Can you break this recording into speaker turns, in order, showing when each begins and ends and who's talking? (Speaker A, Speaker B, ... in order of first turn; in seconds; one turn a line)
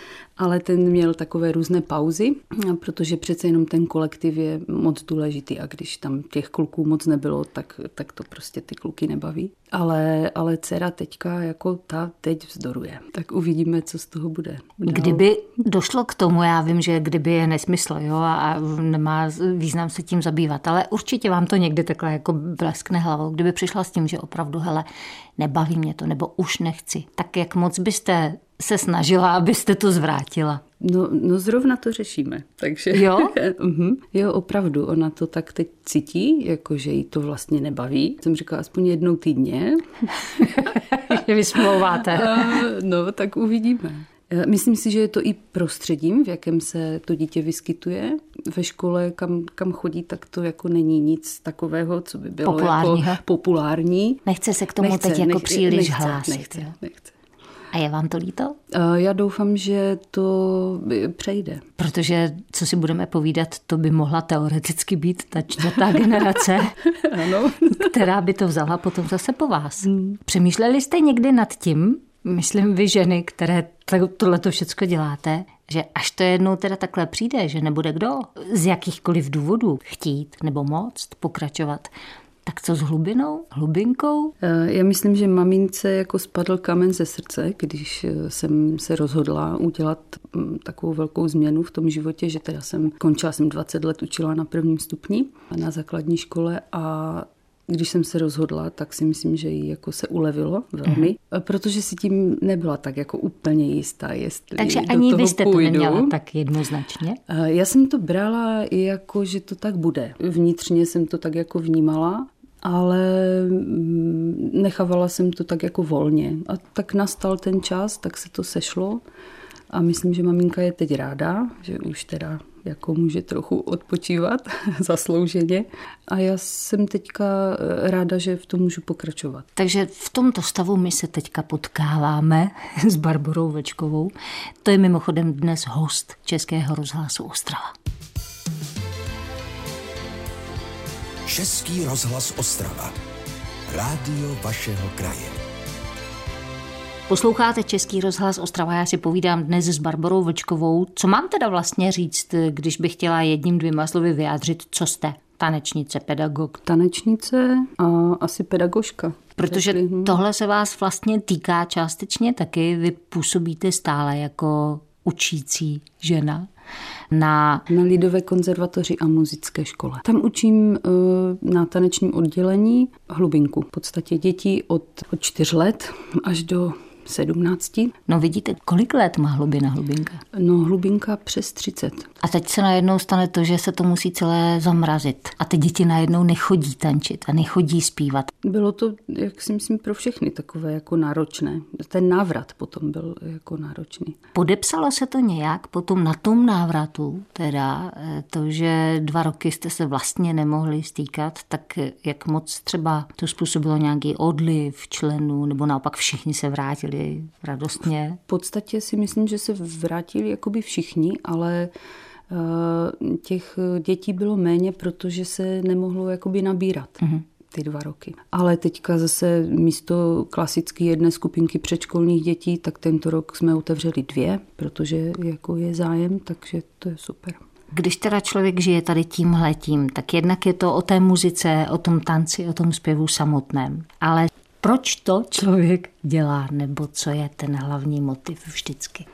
Speaker A: 0.4-15.2
Speaker B: 14.8-24.9
Speaker B: 25.4-30.6
Speaker A: 30.8-40.4
Speaker B: 32.9-33.3
Speaker B: 40.3-42.7
Speaker A: 41.6-54.2
Speaker B: 52.4-53.2
Speaker B: 54.2-56.7
Speaker A: 54.8-57.1
Speaker B: 57.7-58.5
Speaker A: 58.7-61.6
Speaker B: 61.8-66.8
Speaker A: 66.9-67.9
Speaker B: 67.7-81.9
Speaker A: 69.9-70.2
Speaker B: 82.4-84.3
Speaker A: 84.4-106.1
Speaker B: 104.6-107.2
Speaker A: 107.3-119.0
Speaker A: 119.7-129.5
Speaker B: 129.6-134.1
Speaker B: 134.6-137.7
Speaker C: 141.3-142.9
Speaker C: 143.7-145.4
Speaker B: 147.1-156.6
Speaker A: 156.6-160.2
Speaker B: 159.3-166.5
Speaker B: 167.1-167.6
Speaker A: 167.7-177.9
Speaker B: 178.1-180.2
Speaker A: 180.3-182.1
Speaker B: 182.2-188.3
Speaker A: 188.4-194.2
Speaker B: 194.3-208.2
Speaker A: 208.3-211.7
Speaker A: 212.3-227.4
Speaker B: 227.7-239.1